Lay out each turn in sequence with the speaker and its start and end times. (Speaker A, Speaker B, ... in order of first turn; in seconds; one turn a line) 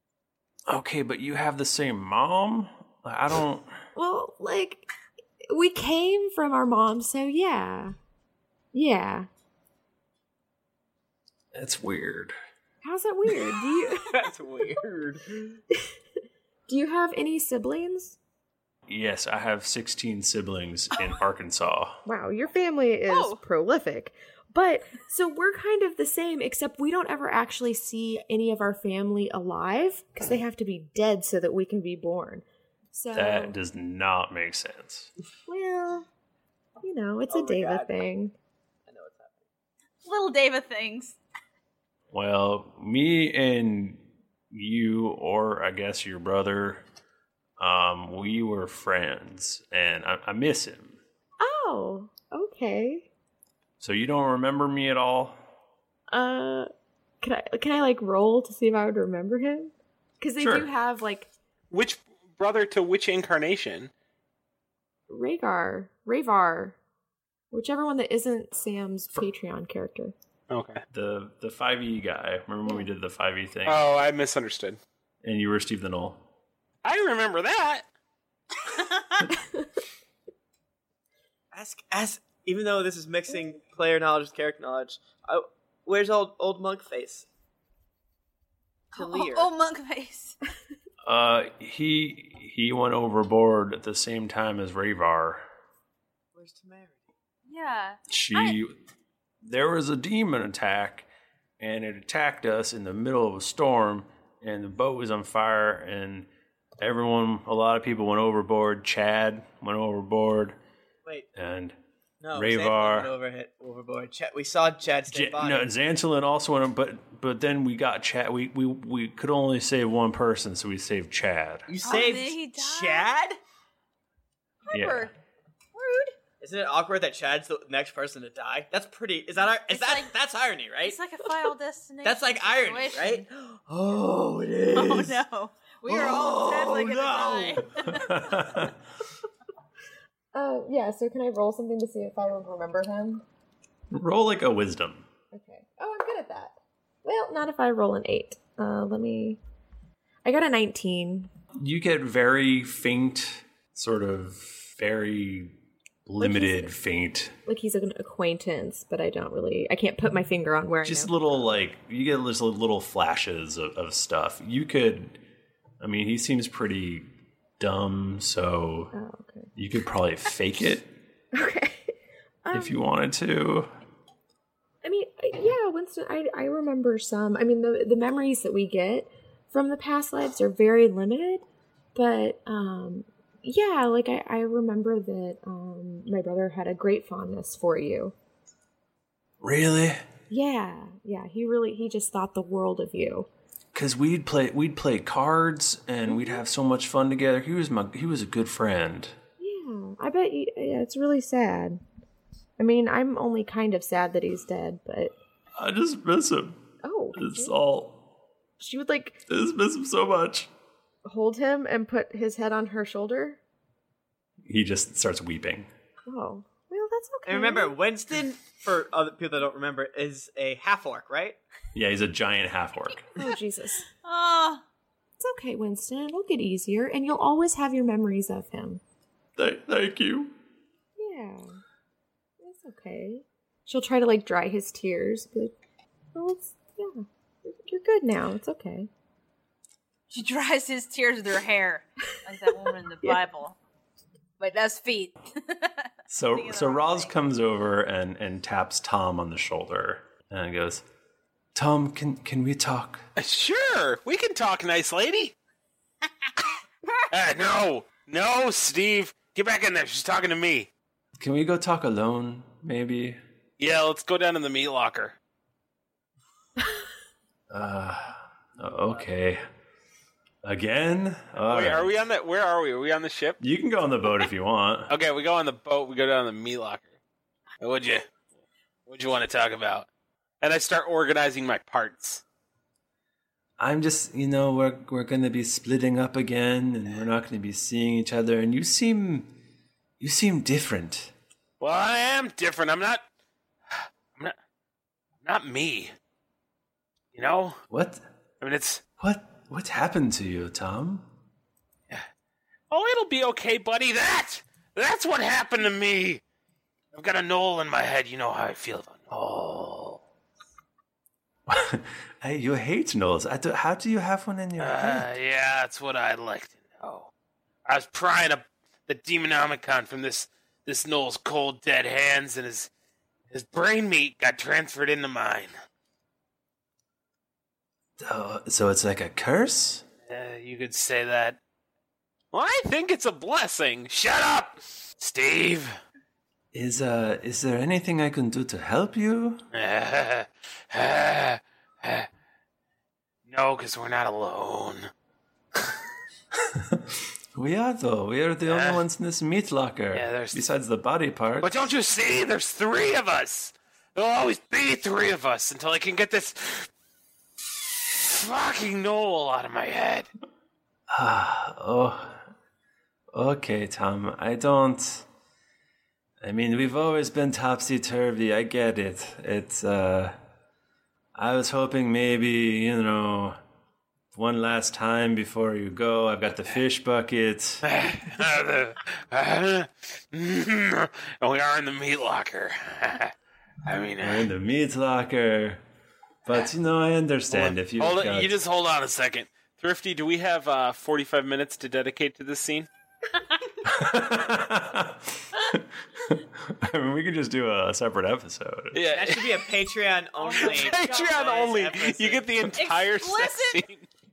Speaker A: 0.7-3.8
Speaker B: 4.0-4.9
Speaker B: 5.5-8.0
Speaker B: 8.7-9.3
Speaker A: 11.5-12.3
Speaker B: 12.8-14.2
Speaker C: 14.1-15.6
Speaker B: 16.7-18.2
Speaker A: 18.9-22.0
Speaker B: 22.1-33.6
Speaker D: 23.1-23.4
Speaker A: 33.1-35.1
Speaker B: 35.5-36.1
Speaker B: 36.8-38.3
Speaker C: 37.3-38.0
Speaker C: 38.9-39.5
Speaker D: 40.0-41.2
Speaker A: 42.1-46.8
Speaker A: 47.6-51.0
Speaker B: 51.4-53.1
Speaker A: 53.8-55.4
Speaker B: 56.1-56.7
Speaker B: 57.2-61.3
Speaker A: 60.4-60.7
Speaker E: 61.7-63.9
Speaker B: 65.1-66.8
Speaker B: 67.5-70.2
Speaker E: 70.5-70.8
Speaker A: 70.9-73.9
Speaker E: 73.7-74.8
Speaker A: 75.2-76.2
Speaker E: 76.8-77.9
Speaker C: 81.5-87.3
Speaker C: 88.9-89.5
Speaker D: 88.9-90.4
Speaker A: 91.0-95.4
Speaker C: 96.3-97.1
Speaker D: 97.5-98.6
Speaker A: 98.1-98.8
Speaker A: 99.4-101.1
Speaker A: 101.6-106.3
Speaker A: 106.8-110.6
Speaker A: 111.3-111.8
Speaker C: 112.2-115.7
Speaker A: 112.3-113.1
Speaker A: 115.1-121.7
Speaker C: 121.7-123.4
Speaker D: 121.8-123.2
Speaker D: 124.6-125.1
Speaker A: 124.7-125.1
Speaker D: 125.8-126.2
Speaker C: 126.4-131.0
Speaker D: 129.5-130.2
Speaker D: 130.8-133.6
Speaker C: 132.0-135.2
Speaker D: 134.7-138.5
Speaker A: 135.9-138.7
Speaker B: 140.3-143.2
Speaker A: 143.9-145.1
Speaker B: 145.3-149.4
Speaker B: 150.2-151.3
Speaker A: 151.6-157.3
Speaker B: 156.2-156.8
Speaker B: 157.5-161.5
Speaker A: 160.8-165.2
Speaker A: 165.8-167.1
Speaker A: 167.6-168.9
Speaker B: 168.9-169.5
Speaker A: 169.6-170.9
Speaker B: 171.3-172.9
Speaker A: 172.5-173.7
Speaker B: 174.8-181.4
Speaker B: 181.9-188.2
Speaker A: 189.4-190.0
Speaker B: 190.3-193.3
Speaker A: 193.7-199.2
Speaker B: 196.1-196.4
Speaker B: 199.4-201.8
Speaker B: 202.6-205.2
Speaker A: 205.6-208.1
Speaker B: 206.8-207.6
Speaker B: 208.6-209.3
Speaker A: 209.3-210.5
Speaker B: 211.1-213.4
Speaker A: 214.4-215.7
Speaker B: 216.1-217.8
Speaker C: 217.2-221.4
Speaker A: 221.7-223.1
Speaker B: 223.2-223.9
Speaker D: 224.0-224.6
Speaker B: 225.2-228.8
Speaker A: 229.4-230.4
Speaker B: 231.0-231.6
Speaker B: 232.4-235.6
Speaker B: 236.1-238.9
Speaker D: 240.1-243.6
Speaker D: 244.4-247.1
Speaker A: 246.1-250.8
Speaker A: 251.6-253.0
Speaker E: 253.2-255.3
Speaker E: 257.1-260.7
Speaker A: 261.2-263.2
Speaker E: 263.6-265.1
Speaker A: 267.5-269.4
Speaker A: 270.4-271.9
Speaker E: 271.5-273.4
Speaker A: 273.4-274.9
Speaker E: 274.9-276.9
Speaker E: 277.6-278.1
Speaker E: 278.9-279.9
Speaker E: 280.4-282.2
Speaker A: 283.6-289.4
Speaker A: 290.0-291.1
Speaker E: 291.6-293.0
Speaker E: 293.7-294.3
Speaker E: 295.2-295.9
Speaker E: 297.1-297.6
Speaker A: 297.7-298.0
Speaker E: 298.4-298.8
Speaker A: 299.0-301.1
Speaker E: 302.7-306.2
Speaker E: 306.9-310.0
Speaker A: 311.5-315.1
Speaker E: 314.6-317.1
Speaker E: 317.7-322.7
Speaker E: 323.3-325.5
Speaker A: 328.0-329.9
Speaker E: 330.1-331.4
Speaker E: 332.3-335.8
Speaker A: 336.5-339.4
Speaker E: 339.5-342.1
Speaker E: 343.3-344.9
Speaker A: 346.4-346.8
Speaker A: 347.4-351.5
Speaker E: 348.5-348.8
Speaker E: 349.9-350.4
Speaker E: 351.4-356.7
Speaker E: 357.9-360.1
Speaker A: 360.9-362.2
Speaker A: 363.1-365.1
Speaker A: 366.2-370.1
Speaker A: 371.1-373.4
Speaker A: 374.1-377.7
Speaker E: 377.7-383.1
Speaker E: 383.6-384.3
Speaker A: 384.0-385.6
Speaker A: 386.3-388.4
Speaker E: 387.3-392.7
Speaker A: 393.6-398.9
Speaker E: 398.7-399.5
Speaker C: 398.9-402.3
Speaker D: 400.2-401.2
Speaker E: 400.3-403.9
Speaker D: 402.6-403.6